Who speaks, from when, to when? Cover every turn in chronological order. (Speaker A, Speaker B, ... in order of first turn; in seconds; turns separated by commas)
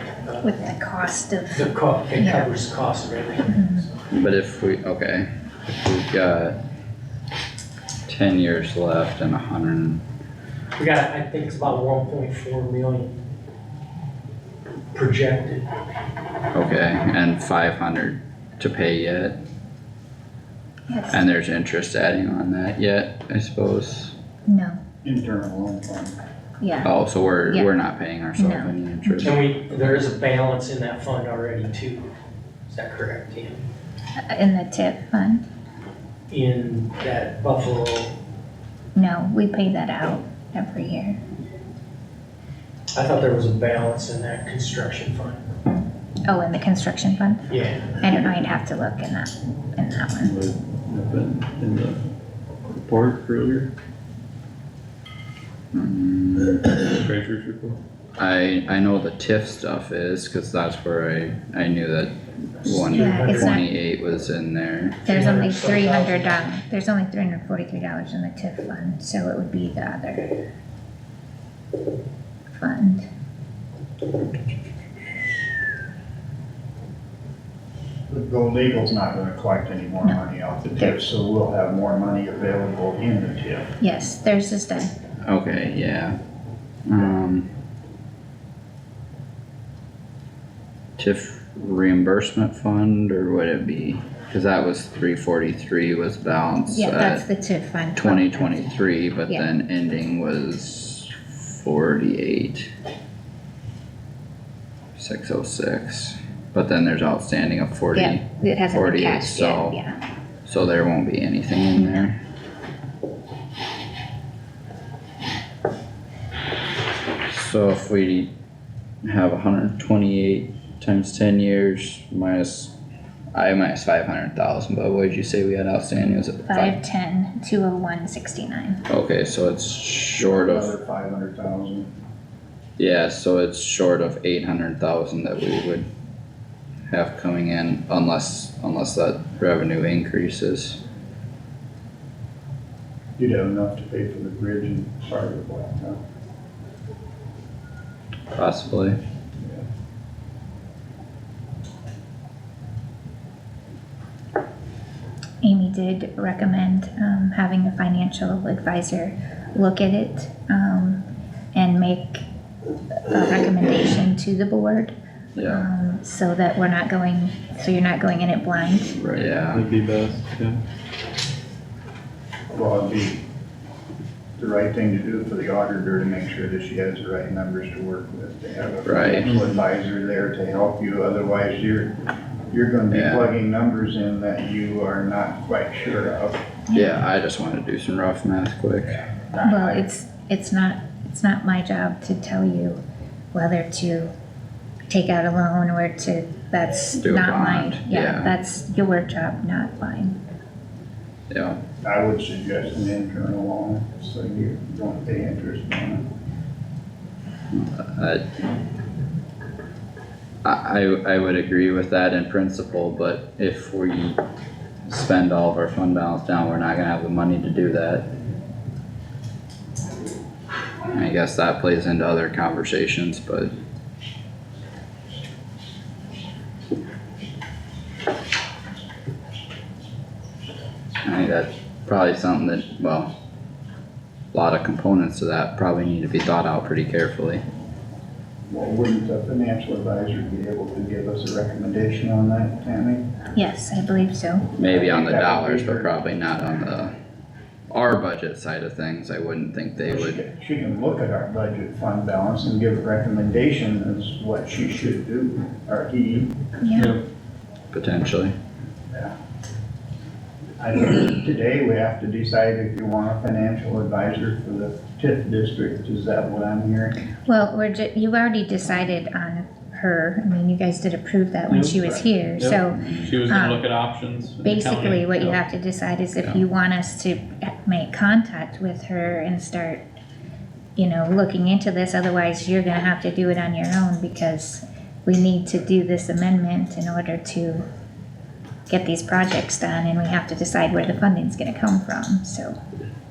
Speaker A: 0.2-0.7, Speaker B: 0.4-2.5, Speaker A: 1.5-4.0, Speaker B: 3.5-3.8, Speaker C: 4.1-6.6, Speaker C: 8.1-10.0, Speaker A: 10.8-13.2, Speaker A: 14.9-15.7, Speaker C: 16.5-19.4, Speaker B: 20.9-21.2, Speaker C: 21.1-24.1, Speaker B: 24.5-24.8, Speaker D: 25.0-26.2, Speaker B: 26.6-27.7, Speaker C: 26.8-29.4, Speaker B: 28.4-29.3, Speaker A: 29.2-32.1, Speaker A: 32.7-33.7, Speaker B: 34.2-35.5, Speaker A: 36.3-38.1, Speaker B: 39.0-41.2, Speaker A: 42.9-45.4, Speaker B: 46.3-50.3, Speaker A: 47.5-48.0, Speaker E: 50.2-52.0, Speaker E: 52.7-53.7, Speaker C: 55.7-56.9, Speaker E: 56.9-57.8, Speaker C: 58.2-65.0, Speaker A: 62.7-63.6, Speaker B: 62.9-63.6, Speaker A: 65.1-66.5, Speaker B: 65.1-70.4, Speaker B: 72.5-73.1, Speaker D: 78.1-83.7, Speaker B: 83.8-84.9, Speaker C: 85.2-86.2, Speaker C: 86.9-87.5, Speaker C: 91.0-97.2, Speaker B: 96.7-98.7, Speaker C: 98.0-102.7, Speaker C: 105.0-109.8, Speaker B: 108.0-110.0, Speaker C: 110.5-112.2, Speaker B: 111.8-112.1, Speaker C: 117.3-118.3, Speaker C: 119.0-122.7, Speaker C: 123.3-126.8, Speaker B: 126.5-128.8, Speaker C: 128.9-130.7, Speaker D: 130.2-131.9, Speaker C: 132.8-135.9, Speaker C: 136.9-140.8, Speaker D: 143.2-146.0, Speaker C: 148.3-149.0, Speaker B: 155.4-162.2, Speaker B: 163.1-169.0, Speaker C: 165.4-165.7, Speaker E: 169.0-170.6, Speaker C: 169.2-169.6, Speaker D: 172.5-173.2, Speaker D: 174.4-181.9, Speaker C: 178.9-179.3, Speaker E: 179.2-179.5, Speaker D: 182.5-186.5, Speaker C: 182.9-183.3, Speaker B: 186.7-187.0, Speaker C: 186.7-189.0, Speaker D: 189.4-189.8, Speaker B: 189.4-192.8, Speaker B: 193.3-194.1, Speaker B: 194.9-200.2, Speaker C: 197.0-198.3, Speaker C: 201.3-201.6, Speaker D: 201.8-206.1, Speaker C: 207.5-208.2, Speaker C: 210.4-214.2, Speaker C: 214.9-218.1, Speaker C: 220.9-223.5, Speaker C: 231.0-233.1, Speaker C: 234.3-237.4, Speaker D: 238.5-243.0, Speaker B: 243.3-244.5, Speaker C: 244.6-246.9, Speaker D: 244.6-245.9, Speaker C: 247.7-250.2, Speaker D: 249.9-256.3, Speaker B: 256.6-257.0, Speaker E: 256.8-257.0, Speaker C: 257.7-258.3, Speaker D: 260.6-267.0, Speaker B: 267.3-273.6, Speaker E: 271.5-275.5, Speaker C: 272.8-273.2, Speaker B: 274.4-279.8, Speaker B: 280.8-287.6, Speaker B: 288.7-292.6